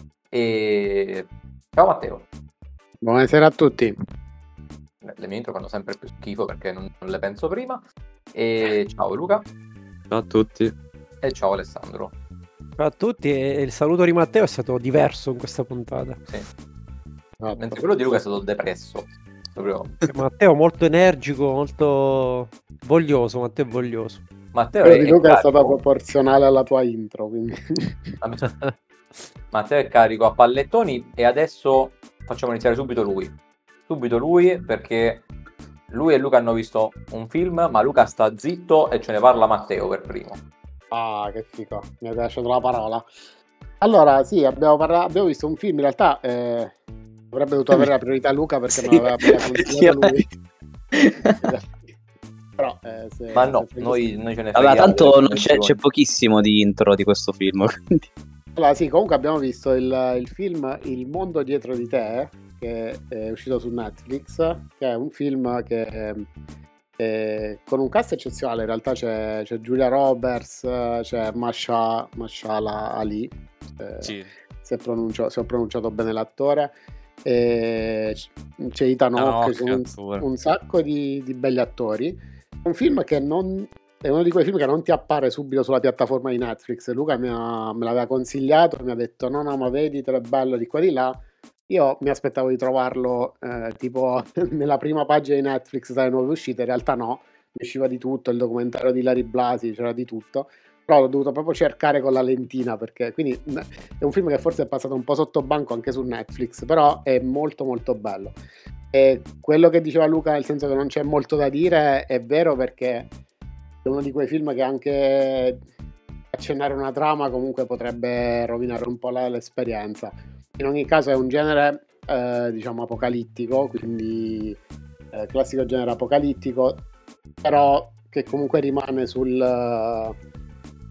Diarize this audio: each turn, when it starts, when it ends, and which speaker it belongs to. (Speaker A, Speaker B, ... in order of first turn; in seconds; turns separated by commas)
Speaker A: 0.3-2.2, Speaker B: 3.0-4.0, Speaker A: 5.0-7.8, Speaker A: 8.3-9.4, Speaker C: 10.1-10.7, Speaker A: 11.2-12.1, Speaker D: 12.8-16.2, Speaker B: 17.4-18.2, Speaker A: 17.6-20.0, Speaker D: 20.1-24.2, Speaker A: 24.5-25.8, Speaker B: 24.8-28.0, Speaker A: 28.2-28.7, Speaker A: 29.5-33.3, Speaker A: 33.9-35.2, Speaker A: 35.9-40.4, Speaker B: 40.9-43.0, Speaker B: 43.8-46.7, Speaker B: 47.3-50.3, Speaker C: 48.7-50.1, Speaker C: 50.9-51.4, Speaker B: 51.4-51.9, Speaker B: 52.6-54.0, Speaker A: 53.3-55.8, Speaker C: 54.5-58.1, Speaker B: 58.5-66.3, Speaker B: 67.0-76.7, Speaker C: 74.0-74.3, Speaker B: 77.2-108.4, Speaker C: 79.2-80.2, Speaker B: 108.9-113.1, Speaker B: 113.8-115.6, Speaker B: 116.3-124.6, Speaker B: 125.1-126.8, Speaker B: 127.4-130.2